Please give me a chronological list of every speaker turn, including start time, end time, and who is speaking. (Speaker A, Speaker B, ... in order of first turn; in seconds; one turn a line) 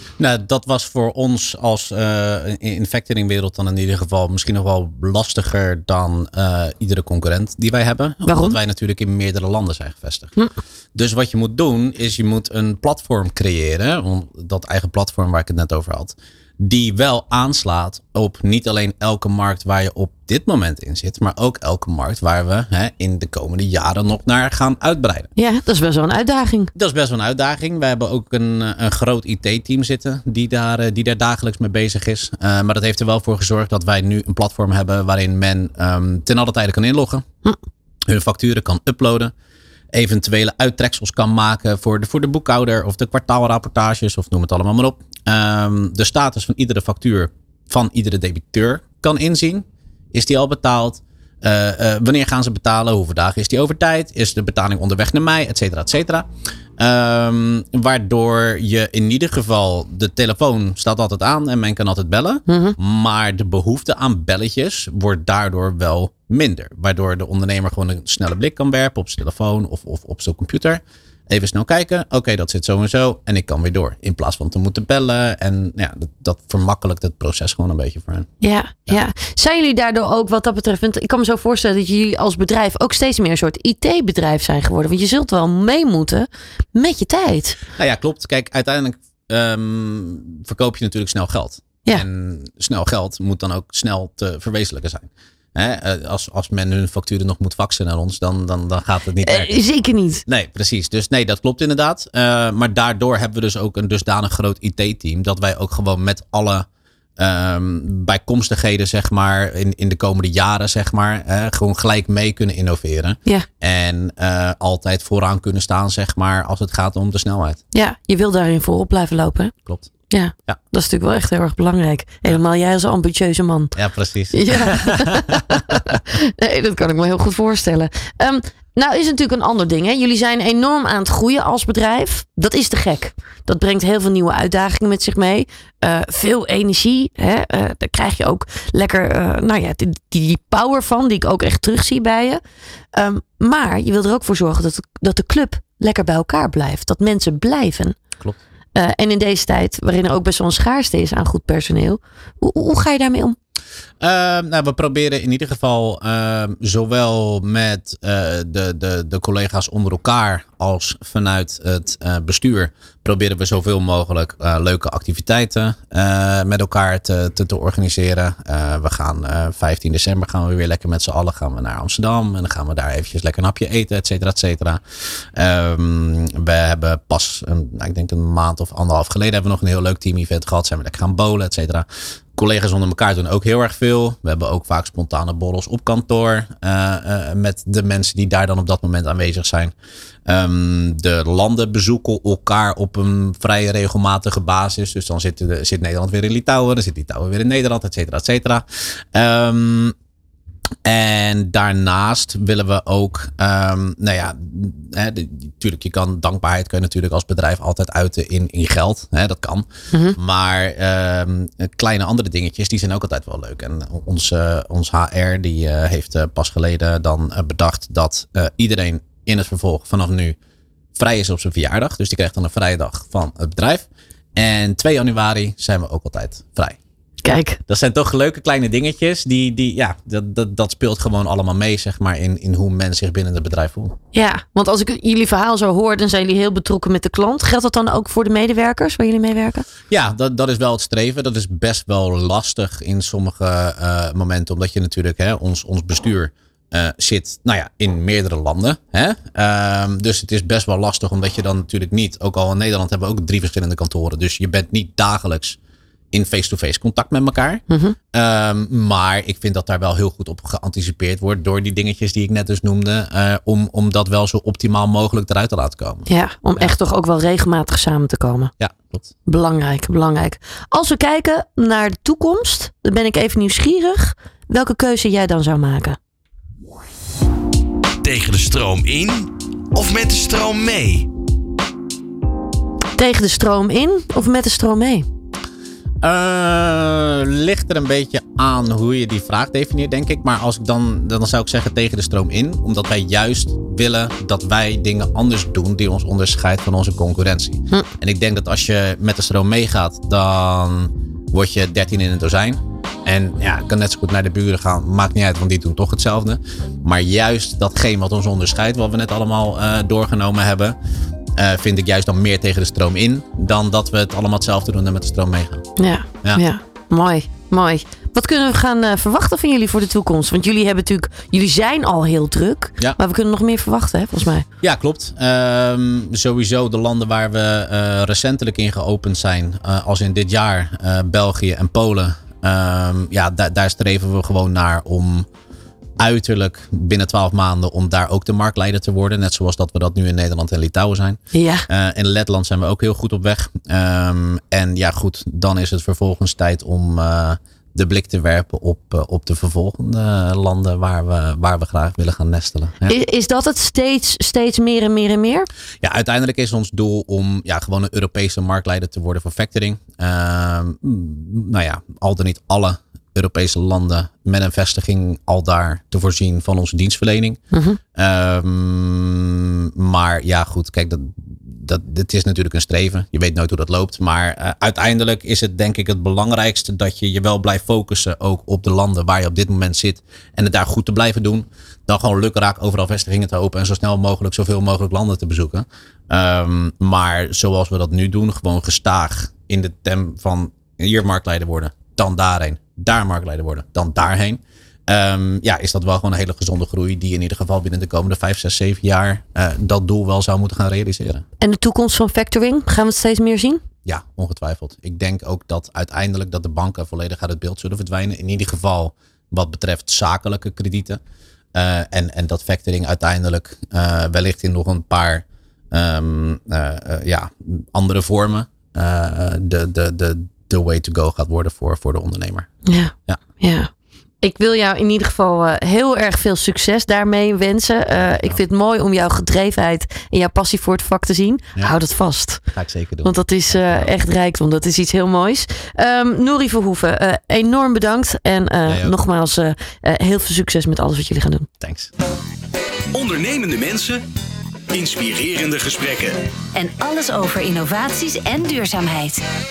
Speaker A: 0.2-10.3
Speaker B: 8.2-8.6
Speaker A: 10.9-25.3
Speaker B: 25.4-26.7
Speaker A: 26.7-37.2
Speaker A: 38.1-39.3
Speaker A: 39.9-78.3
Speaker B: 62.5-62.8
Speaker B: 78.4-87.6
Speaker A: 87.8-99.5
Speaker B: 99.2-100.2
Speaker A: 100.3-106.7
Speaker A: 107.2-117.6
Speaker B: 117.7-119.5
Speaker A: 119.7-119.9
Speaker B: 120.1-123.7
Speaker A: 123.7-126.0
Speaker B: 124.3-142.4
Speaker B: 142.9-148.0
Speaker B: 148.7-153.4
Speaker A: 154.0-189.7
Speaker A: 190.2-199.9
Speaker A: 200.8-220.4
Speaker B: 209.9-210.2
Speaker A: 220.9-226.8
Speaker B: 227.2-227.6
Speaker A: 227.7-234.0
Speaker B: 234.1-239.6
Speaker A: 239.9-255.6
Speaker A: 256.1-266.7
Speaker B: 257.7-257.9
Speaker B: 266.1-268.5
Speaker A: 268.6-269.1
Speaker B: 269.2-276.0
Speaker C: 278.0-281.1
Speaker B: 283.0-285.1
Speaker A: 286.0-310.8
Speaker A: 311.4-315.7
Speaker B: 315.8-324.4
Speaker A: 324.6-335.3
Speaker A: 336.0-353.0
Speaker B: 341.3-341.7
Speaker B: 352.9-355.5
Speaker A: 355.8-367.4
Speaker B: 367.5-367.8
Speaker A: 367.9-401.2
Speaker B: 401.4-403.6
Speaker A: 403.8-411.0
Speaker A: 411.5-422.5
Speaker B: 422.6-423.7
Speaker B: 424.2-432.4
Speaker A: 428.0-428.4
Speaker A: 432.5-433.9
Speaker B: 433.0-441.5
Speaker A: 438.6-438.9
Speaker A: 441.6-441.9
Speaker D: 442.9-444.0
Speaker D: 444.7-446.2
Speaker E: 446.5-449.2